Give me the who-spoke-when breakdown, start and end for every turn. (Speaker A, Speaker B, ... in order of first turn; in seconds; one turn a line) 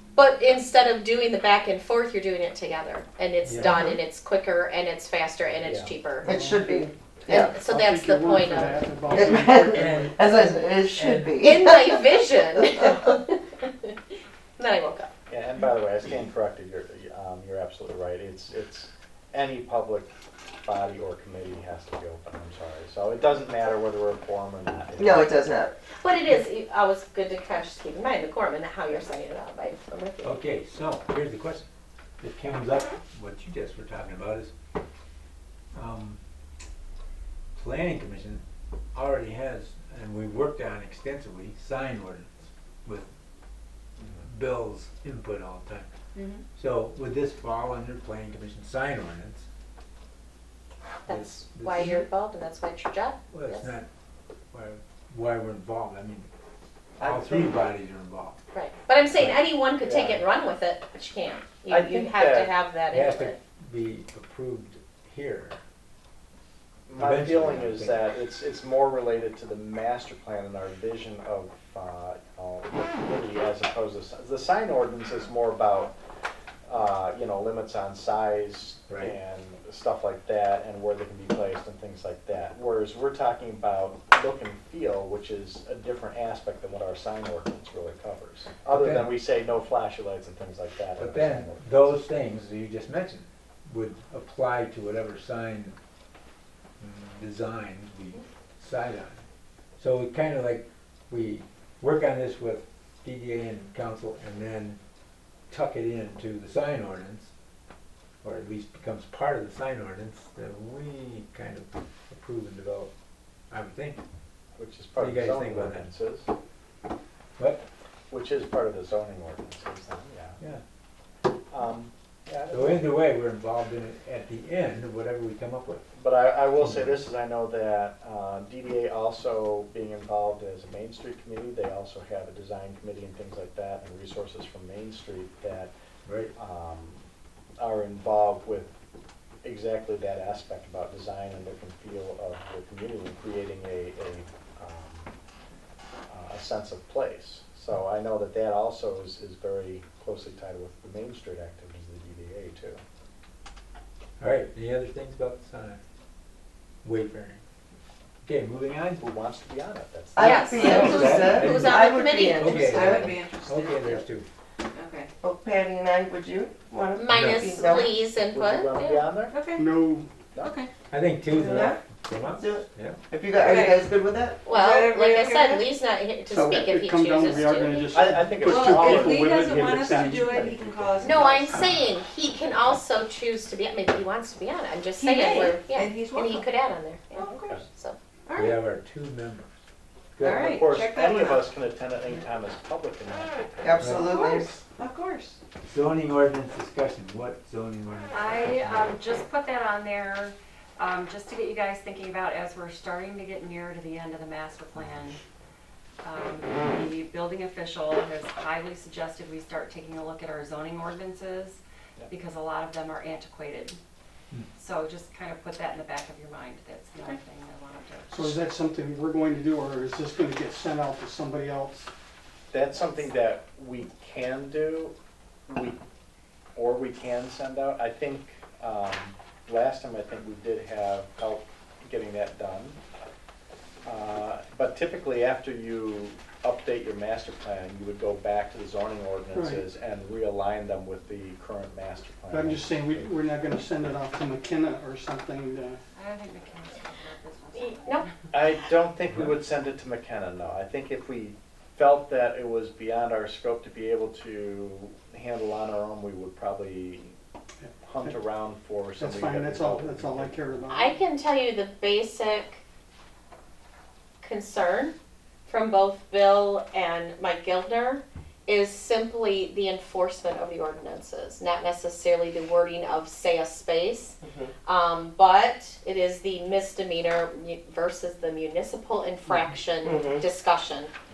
Speaker A: 0.1-6.3
Speaker B: 3.4-3.8
Speaker C: 5.6-5.9
Speaker D: 6.2-7.6
Speaker E: 6.3-6.8
Speaker A: 7.3-8.8
Speaker E: 7.7-10.1
Speaker D: 9.1-13.0
Speaker B: 9.7-11.4
Speaker A: 11.4-13.9
Speaker A: 14.6-15.1
Speaker C: 15.3-20.1
Speaker C: 20.6-25.4
Speaker D: 25.0-25.7
Speaker A: 26.0-30.4
Speaker B: 30.2-31.6
Speaker B: 32.2-34.5
Speaker B: 35.7-36.2
Speaker B: 37.5-38.4
Speaker B: 38.9-43.1
Speaker B: 44.2-45.9
Speaker B: 46.5-49.4
Speaker A: 51.0-53.7
Speaker B: 51.1-52.0
Speaker B: 53.3-53.9
Speaker B: 54.5-56.3
Speaker C: 57.0-57.6
Speaker B: 57.0-58.4
Speaker A: 58.5-63.4
Speaker C: 59.8-60.2
Speaker C: 61.7-62.5
Speaker B: 62.9-65.6
Speaker C: 66.9-75.9
Speaker B: 67.0-68.0
Speaker C: 76.7-91.9
Speaker B: 88.7-89.1
Speaker B: 91.0-95.7
Speaker B: 96.8-99.2
Speaker B: 99.8-104.8
Speaker B: 105.5-107.3
Speaker B: 108.2-112.9
Speaker B: 113.5-114.0
Speaker C: 114.5-116.3
Speaker B: 115.0-115.9
Speaker B: 117.4-117.7
Speaker C: 118.1-120.4
Speaker C: 121.5-122.8
Speaker B: 122.5-125.8
Speaker C: 125.9-135.7
Speaker B: 126.6-126.9
Speaker B: 136.1-136.3
Speaker C: 136.3-137.0
Speaker C: 137.6-138.7
Speaker C: 139.4-145.1
Speaker C: 146.1-152.8
Speaker B: 154.2-155.8
Speaker B: 156.8-157.4
Speaker B: 158.2-159.0
Speaker C: 159.0-161.3
Speaker D: 160.1-163.2
Speaker A: 160.2-163.0
Speaker B: 160.6-164.2
Speaker F: 163.1-163.9
Speaker F: 164.8-165.1
Speaker D: 165.2-167.9
Speaker A: 166.9-169.0
Speaker B: 167.1-167.5
Speaker C: 168.3-169.4
Speaker F: 169.3-169.6
Speaker E: 169.6-170.1
Speaker B: 170.9-173.7
Speaker D: 171.3-174.5
Speaker A: 174.4-177.9
Speaker F: 174.5-175.6
Speaker E: 176.3-180.3
Speaker C: 177.9-181.5
Speaker F: 178.5-181.4
Speaker A: 181.0-187.1
Speaker F: 185.0-186.4
Speaker F: 187.1-187.5
Speaker A: 187.7-188.0
Speaker F: 188.3-188.5
Speaker B: 188.3-189.5
Speaker B: 190.2-190.6
Speaker F: 190.2-191.4
Speaker C: 190.4-193.9
Speaker D: 193.6-194.6
Speaker B: 193.8-194.6
Speaker F: 194.3-195.2
Speaker B: 195.6-198.8
Speaker G: 198.1-205.2
Speaker G: 206.0-213.8
Speaker G: 214.6-218.4
Speaker E: 218.1-221.9
Speaker C: 222.5-224.9
Speaker C: 225.5-225.8
Speaker C: 226.5-232.8
Speaker C: 233.8-243.1
Speaker E: 239.3-239.7
Speaker E: 242.3-245.8
Speaker G: 245.9-248.1
Speaker A: 247.6-248.0
Speaker C: 248.3-257.1
Speaker E: 257.6-258.1
Speaker C: 257.8-260.6
Speaker E: 258.9-261.0
Speaker A: 260.7-262.6
Speaker A: 264.2-264.9
Speaker A: 265.5-280.9
Speaker D: 274.2-274.5
Speaker D: 279.8-280.2